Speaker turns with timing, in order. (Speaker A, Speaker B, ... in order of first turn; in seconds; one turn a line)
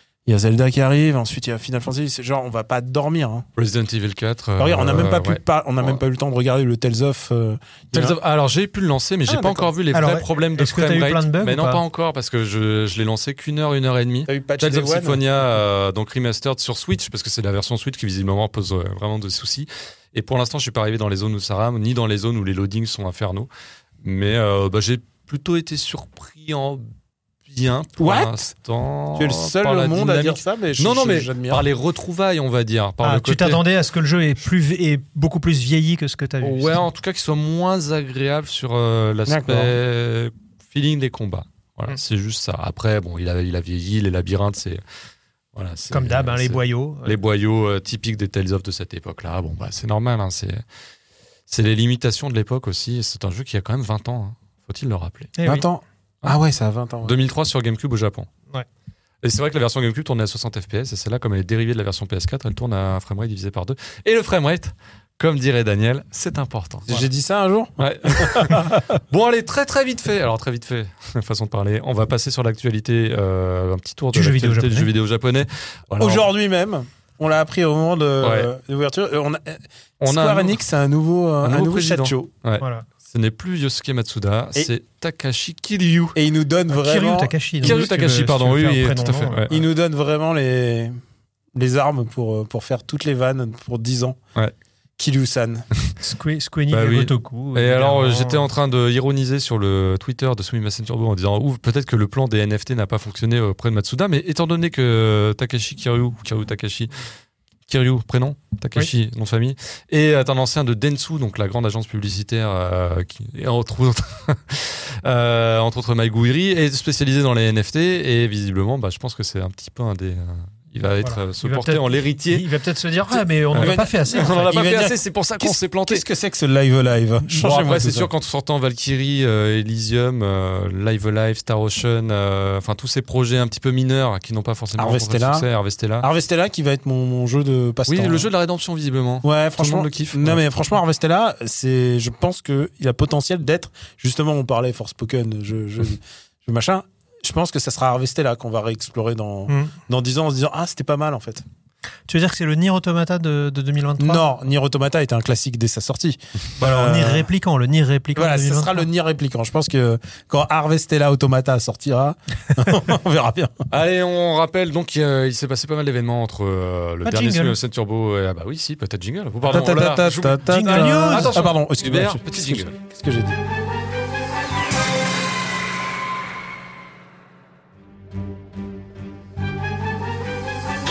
Speaker A: 0.3-3.5
Speaker B: 3.6-6.0
Speaker A: 4.6-8.2
Speaker B: 7.9-23.5
Speaker A: 9.3-9.7
Speaker C: 9.9-11.8
Speaker A: 14.3-15.3
Speaker B: 24.0-26.9
Speaker B: 27.5-33.6
Speaker A: 28.0-28.5
Speaker A: 29.1-31.7
Speaker C: 33.0-36.9
Speaker B: 36.4-44.8
Speaker A: 39.3-39.8
Speaker B: 45.5-50.6
Speaker C: 45.9-47.2
Speaker B: 51.5-55.3
Speaker C: 55.4-55.7
Speaker A: 55.5-57.2
Speaker B: 57.0-58.3
Speaker B: 59.2-67.0
Speaker A: 66.9-68.9
Speaker B: 67.8-76.3
Speaker C: 74.1-74.9
Speaker A: 76.0-82.3
Speaker B: 78.2-78.5
Speaker B: 80.0-80.6
Speaker B: 81.4-86.2
Speaker C: 82.6-82.9
Speaker A: 86.2-87.8
Speaker C: 86.7-89.5
Speaker B: 87.6-89.6
Speaker A: 89.5-91.0
Speaker A: 91.5-94.2
Speaker A: 95.0-95.7
Speaker C: 96.0-98.5
Speaker B: 96.7-106.9
Speaker B: 107.7-122.5
Speaker C: 121.0-124.5
Speaker B: 123.5-126.0
Speaker A: 123.6-128.1
Speaker B: 127.3-136.1
Speaker A: 134.8-135.5
Speaker A: 136.0-138.3
Speaker B: 137.9-140.4
Speaker A: 139.2-151.4
Speaker C: 149.5-149.7
Speaker C: 152.1-154.3
Speaker A: 154.0-157.3
Speaker C: 156.6-158.9
Speaker A: 158.2-163.7
Speaker B: 163.7-172.7
Speaker C: 167.1-167.6
Speaker A: 169.4-173.4
Speaker C: 170.5-171.4